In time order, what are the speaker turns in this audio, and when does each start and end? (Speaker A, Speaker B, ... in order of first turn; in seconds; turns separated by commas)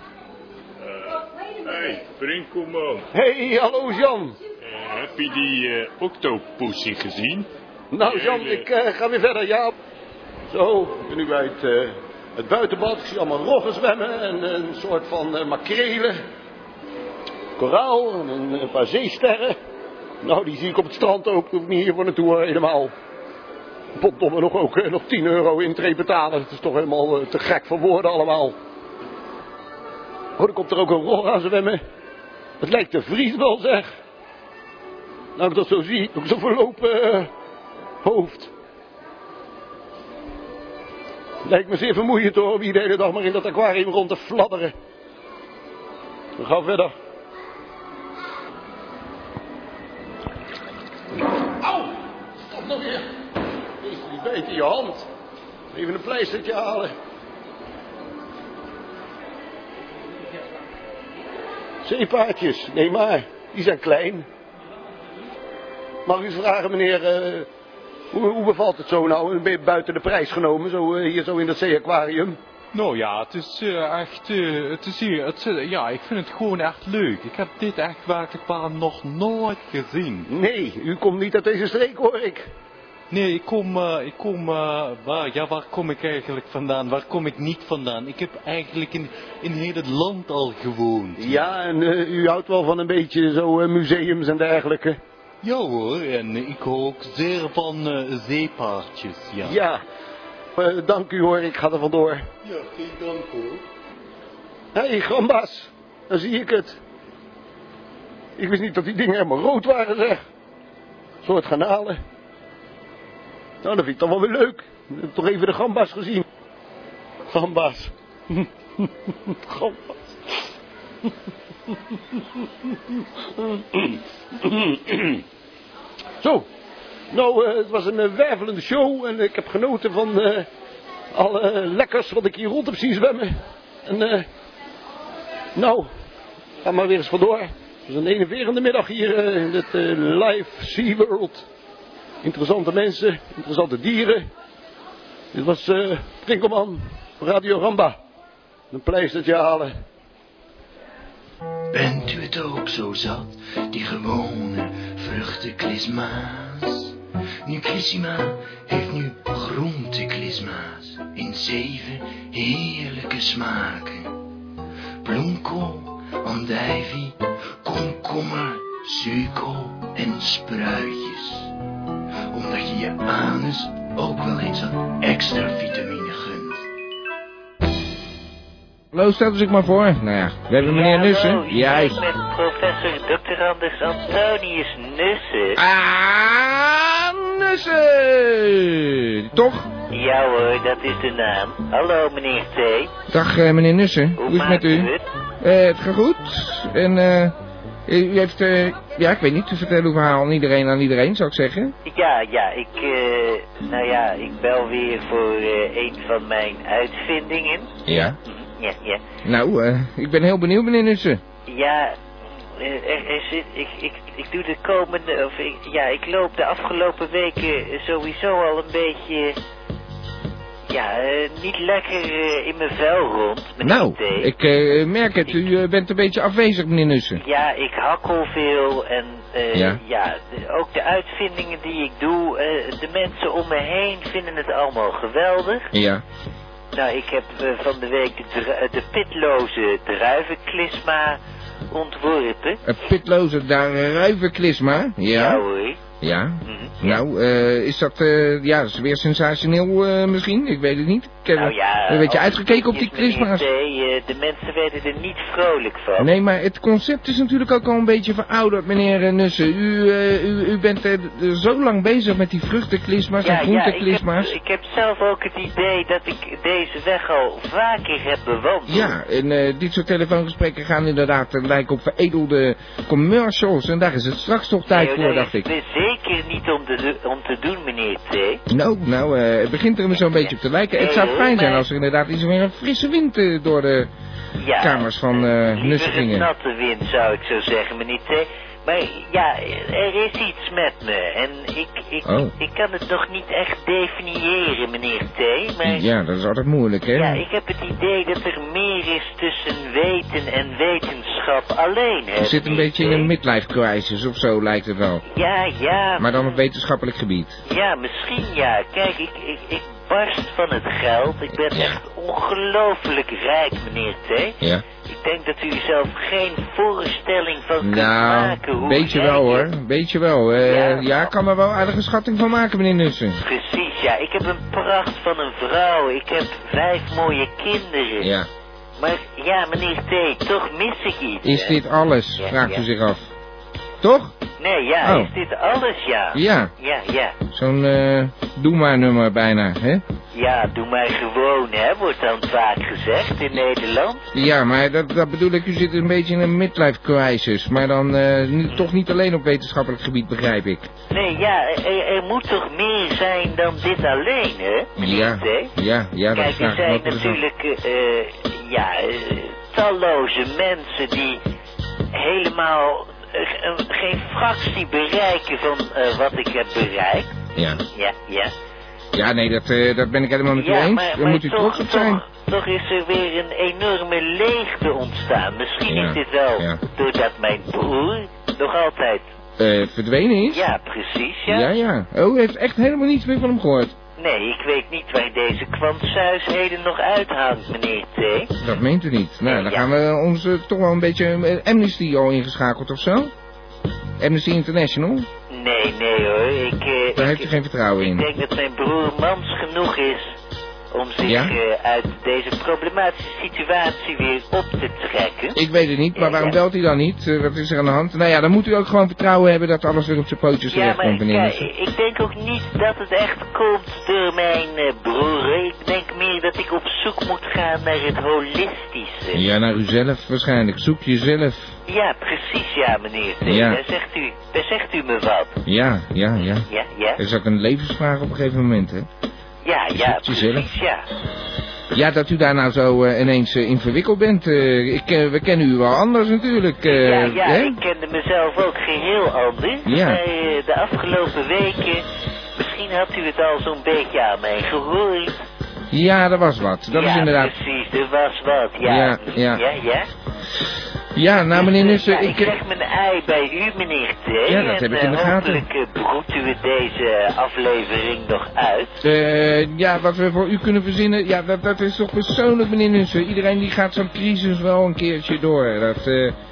Speaker A: 0.8-3.0, Speaker B: 3.1-4.4, Speaker A: 4.6-8.7, Speaker B: 7.9-9.7, Speaker B: 10.5-16.1, Speaker B: 17.6-19.6, Speaker B: 20.2-22.9, Speaker B: 24.0-28.5, Speaker B: 30.4-31.8, Speaker B: 32.6-33.9, Speaker B: 35.4-37.3, Speaker B: 38.0-38.5, Speaker B: 41.4-44.7, Speaker B: 46.4-46.9, Speaker B: 51.6-51.9, Speaker B: 52.5-53.0, Speaker B: 53.8-55.1, Speaker B: 55.7-56.9, Speaker B: 61.8-64.2, Speaker B: 66.0-67.5, Speaker B: 68.1-72.4, Speaker C: 72.7-80.3, Speaker B: 80.3-82.5, Speaker C: 83.1-91.5, Speaker B: 91.2-95.0, Speaker C: 95.4-99.6, Speaker B: 99.4-99.8, Speaker B: 100.6-102.2, Speaker C: 102.5-103.5, Speaker B: 104.8-106.8, Speaker B: 108.4-110.2, Speaker B: 111.2-112.0, Speaker B: 113.6-116.2, Speaker B: 117.3-119.9, Speaker B: 123.4-125.2, Speaker B: 126.2-126.5, Speaker B: 127.1-130.5, Speaker B: 131.1-134.2, Speaker B: 135.5-135.9, Speaker B: 136.6-141.4, Speaker B: 142.2-144.2, Speaker B: 145.3-148.0, Speaker B: 148.7-149.7, Speaker D: 151.7-164.1, Speaker D: 165.0-171.5, Speaker D: 172.3-176.6, Speaker E: 178.9-182.0, Speaker F: 180.6-185.6, Speaker E: 185.6-189.7, Speaker F: 189.9-192.9, Speaker E: 193.1-197.3, Speaker F: 194.2-195.0, Speaker E: 197.9-201.7, Speaker F: 201.8-209.0, Speaker E: 207.9-208.2, Speaker E: 209.2-211.2, Speaker F: 211.5-212.0, Speaker F: 212.6-219.3, Speaker F: 220.7-224.3, Speaker E: 223.6-227.2, Speaker F: 227.2-235.7, Speaker E: 229.5-229.8, Speaker E: 235.7-236.0, Speaker F: 236.7-241.2, Speaker F: 241.7-242.6, Speaker E: 242.7-245.4, Speaker F: 245.1-245.8, Speaker E: 246.0-253.5, Speaker F: 246.4-247.0, Speaker F: 251.3-256.1, Speaker E: 256.0-264.3, Speaker F: 263.2-268.9, Speaker E: 268.7-275.5, Speaker F: 274.7-278.4, Speaker E: 278.5-283.9, Speaker F: 280.0-281.7, Speaker F: 284.4-295.8, Speaker E: 284.6-286.3, Speaker E: 292.0-292.3, Speaker E: 295.6-297.2, Speaker F: 297.0-303.1, Speaker E: 302.2-305.0, Speaker F: 305.1-306.4, Speaker E: 306.0-307.4, Speaker F: 307.5-319.5, Speaker E: 311.5-311.8, Speaker E: 317.6-323.2, Speaker F: 320.5-321.1, Speaker F: 323.2-328.1, Speaker E: 328.0-328.3, Speaker F: 328.8-331.6, Speaker E: 331.2-333.1, Speaker F: 332.2-332.6, Speaker E: 333.8-334.1, Speaker F: 334.4-337.2, Speaker E: 334.8-335.1, Speaker E: 336.1-336.5, Speaker E: 337.3-339.8, Speaker F: 340.1-344.1, Speaker E: 344.1-350.7, Speaker F: 350.9-355.5, Speaker E: 354.8-357.2, Speaker F: 356.1-361.2, Speaker F: 361.9-367.1, Speaker E: 367.4-367.6, Speaker F: 367.7-368.3, Speaker E: 368.9-372.0, Speaker F: 370.4-379.1, Speaker E: 375.7-376.6, Speaker E: 379.4-380.4, Speaker F: 380.3-381.5, Speaker E: 381.3-383.7, Speaker F: 384.0-388.3, Speaker E: 388.4-393.1, Speaker F: 389.2-389.7, Speaker E: 394.0-395.1, Speaker F: 395.3-400.1, Speaker E: 397.0-398.1, Speaker F: 400.7-405.4, Speaker E: 401.0-401.3, Speaker E: 405.3-411.5, Speaker F: 406.0-406.4, Speaker F: 410.5-419.2, Speaker E: 419.1-421.6, Speaker F: 421.7-425.4, Speaker E: 423.2-423.6, Speaker E: 425.4-428.9, Speaker F: 426.5-427.0, Speaker F: 429.4-430.9, Speaker E: 429.8-430.5, Speaker E: 431.7-437.6, Speaker F: 436.6-441.8, Speaker E: 439.7-440.0, Speaker F: 442.4-445.2, Speaker E: 445.7-447.3, Speaker F: 446.7-449.9, Speaker E: 448.6-449.4, Speaker E: 451.0-452.4, Speaker F: 451.3-458.8, Speaker E: 454.3-455.4, Speaker E: 458.8-466.2